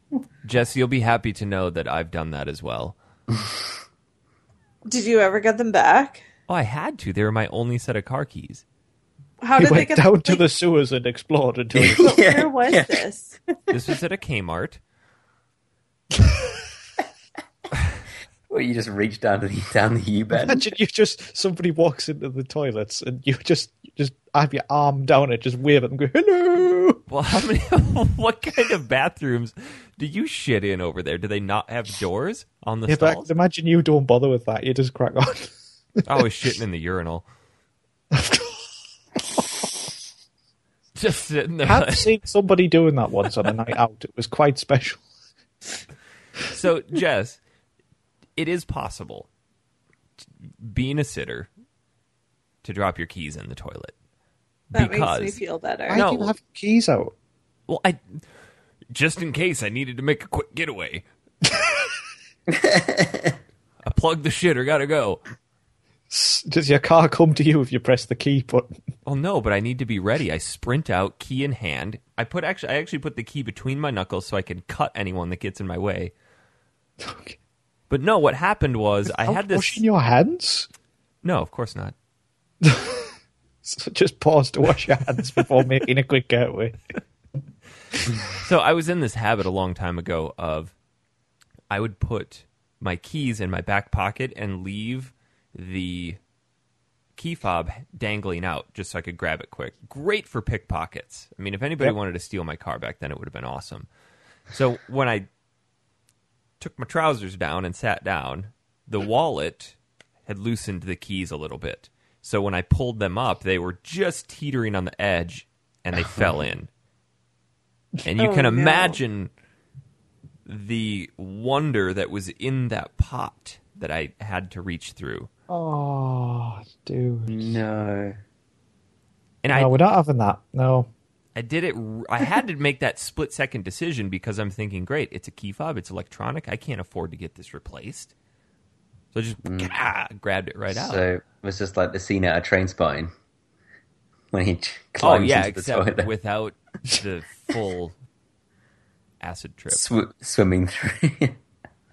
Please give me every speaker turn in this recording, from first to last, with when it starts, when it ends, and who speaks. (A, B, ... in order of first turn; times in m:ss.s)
0:00.4-0:02.9 A
0:04.9-0:06.2 B
0:06.5-0:08.6 A
0:09.4-0:10.4 B
0:09.6-0:12.2 C
0:11.7-0:13.0 D
0:12.0-0:13.4 B
0:13.7-0:14.8 A
0:18.5-0:20.7 D
0:20.3-0:27.0 C
0:27.1-0:33.3 A
0:32.9-0:36.0 C
0:36.0-0:37.2 A
0:38.1-0:38.6 C
0:41.0-0:42.1 A
0:41.6-0:45.0 C
0:46.5-0:47.4 A
0:48.4-0:49.3 A
0:50.6-0:51.5 A
0:52.6-0:53.9 A
0:54.7-0:55.4 A
0:54.7-0:56.0 B
0:55.9-0:57.1 C
0:55.9-0:56.3 A
0:57.7-0:58.1 A
0:58.9-1:01.0 A
1:02.5-1:03.4 D
1:03.8-1:05.2 A
1:06.1-1:08.8 C
1:09.0-1:16.1 A
1:17.0-1:17.4 C
1:17.9-1:19.8 A
1:19.1-1:20.7 C
1:21.2-1:21.9 A
1:22.6-1:23.1 C
1:23.6-1:26.8 C
1:28.3-1:30.7 A
1:31.7-1:36.2 A
1:37.2-1:43.9 A
1:44.5-1:45.2 A
1:46.6-1:49.7 A
1:50.3-1:56.7 A
1:56.0-1:56.4 D
1:58.0-1:59.3 A
1:58.2-1:59.0 B
2:00.4-2:05.3 A
2:05.5-2:07.6 C
2:07.3-2:08.2 D
2:09.4-2:09.7 A
2:09.5-2:10.9 C
2:11.4-2:18.1 A
2:19.1-2:21.0 A
2:19.4-2:19.8 D
2:20.7-2:23.1 D
2:24.3-2:26.1 D
2:25.0-2:27.9 A
2:29.2-2:29.8 A
2:29.7-2:31.4 D